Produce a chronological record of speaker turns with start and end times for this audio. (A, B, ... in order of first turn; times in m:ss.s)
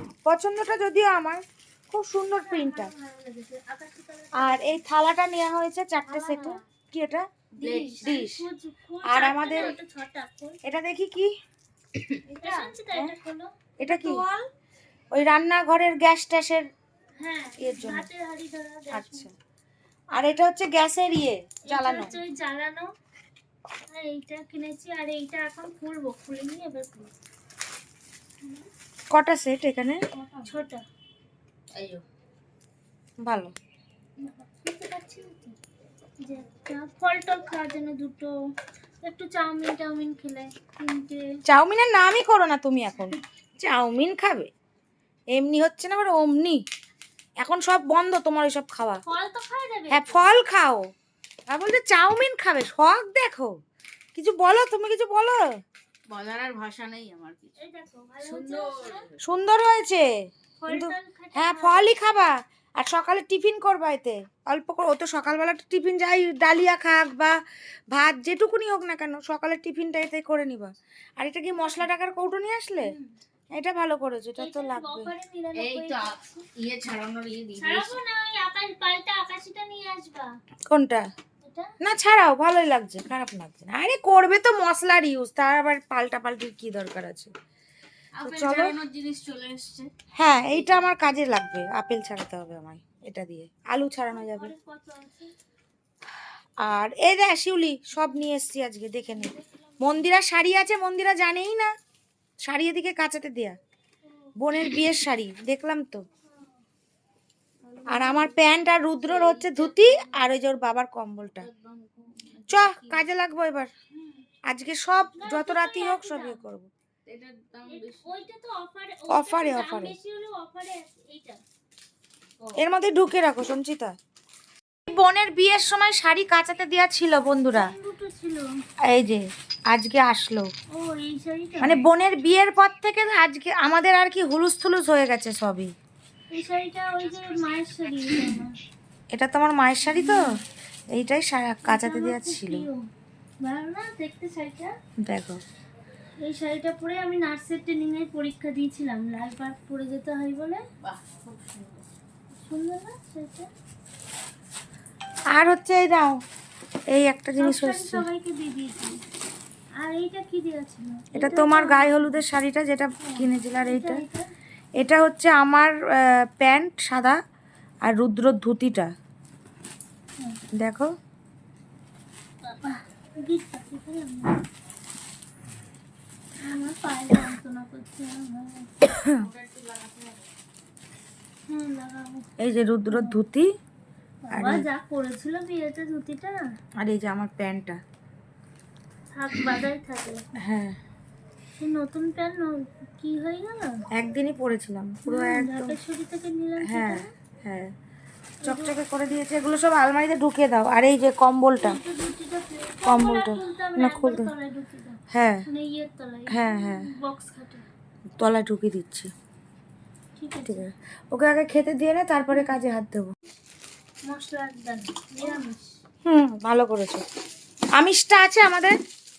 0:00.2-0:02.9 A
0:02.4-0:04.8 B
0:04.4-0:07.3 A
0:06.1-0:06.6 B
0:07.6-0:08.2 C
0:07.6-0:10.6 B
0:08.0-0:08.4 A
0:09.1-0:09.8 A
0:10.6-0:11.3 A
0:12.2-0:12.7 C
0:12.3-0:13.5 B
0:13.8-0:14.2 A
0:13.8-0:14.5 C
0:15.1-0:16.7 A
0:17.2-0:19.3 B
0:17.6-0:18.1 A
0:18.9-0:19.3 A
0:20.1-0:22.1 A
0:21.7-0:22.9 B
0:23.9-0:27.1 B
0:28.4-0:28.7 B
0:29.1-0:30.0 A
0:30.2-0:30.8 B
0:31.7-0:32.0 C
0:33.2-0:33.5 A
0:34.2-0:35.5 B
0:36.2-0:38.3 B
0:39.0-0:41.2 B
0:41.5-0:44.5 A
0:45.3-0:46.6 A
0:47.4-0:49.0 A
0:49.0-0:50.3 B
0:49.9-0:50.9 A
0:51.5-0:53.6 A
0:54.2-0:55.4 A
0:56.1-0:57.6 C
0:57.6-0:59.0 B
0:58.2-0:59.2 C
0:59.2-1:00.0 A
1:00.6-1:01.9 B
1:00.7-1:07.4 A
1:07.9-1:12.9 A
1:12.8-1:13.1 B
1:13.5-1:15.1 A
1:14.4-1:16.4 B
1:15.6-1:18.0 C
1:17.6-1:20.3 B
1:20.7-1:21.0 A
1:21.4-1:21.7 B
1:21.8-1:27.3 A
1:28.2-1:29.9 C
1:28.2-1:28.8 A
1:30.1-1:34.5 A
1:34.1-1:35.3 B
1:36.6-1:41.7 A
1:39.1-1:40.0 B
1:42.4-1:43.6 A
1:44.0-1:44.3 B
1:44.4-1:46.0 A
1:46.2-1:46.6 B
1:47.8-1:50.2 C
1:47.9-1:51.5 A
1:51.4-1:53.0 C
1:52.5-1:53.7 A
1:54.5-1:56.7 A
1:55.2-1:56.4 B
1:57.1-1:58.2 C
1:57.6-2:01.4 B
1:59.1-2:00.0 A
2:02.6-2:04.0 A
2:04.9-2:07.7 A
2:07.5-2:08.4 B
2:08.9-2:10.5 A
2:10.7-2:11.8 B
2:11.6-2:15.7 A
2:16.3-2:18.5 B
2:19.1-2:20.2 A
2:19.9-2:20.3 B
2:20.9-2:22.6 A
2:21.6-2:22.8 B
2:23.4-2:24.7 B
2:25.0-2:25.4 A
2:26.2-2:30.6 B
2:30.8-2:31.9 C
2:32.3-2:33.5 B
2:35.3-2:36.2 A
2:36.9-2:38.0 A
2:37.4-2:39.0 B
2:39.8-2:42.2 B
2:41.1-2:44.0 A
2:43.0-2:44.3 B
2:44.8-2:47.2 A
2:47.8-2:48.9 A
2:50.6-2:50.9 A
2:52.4-2:54.4 B
2:56.4-2:58.7 B
2:58.8-2:59.3 A
2:59.2-3:00.3 C
3:01.5-3:02.2 B
3:02.4-3:03.5 A
3:04.2-3:06.4 B
3:04.3-3:04.6 A
3:06.8-3:07.8 A
3:09.1-3:10.2 B
3:10.4-3:10.8 A
3:11.6-3:13.7 B
3:14.0-3:15.8 A
3:15.1-3:17.1 B
3:16.6-3:17.7 A
3:18.4-3:18.8 B
3:18.4-3:21.8 A
3:21.6-3:27.6 B
3:22.8-3:24.3 A
3:25.1-3:25.4 A
3:26.3-3:26.9 A
3:28.2-3:29.1 A
3:30.2-3:30.7 B
3:30.4-3:33.1 A
3:32.3-3:32.6 B
3:34.0-3:35.8 B
3:36.0-3:37.0 A
3:37.8-3:38.8 A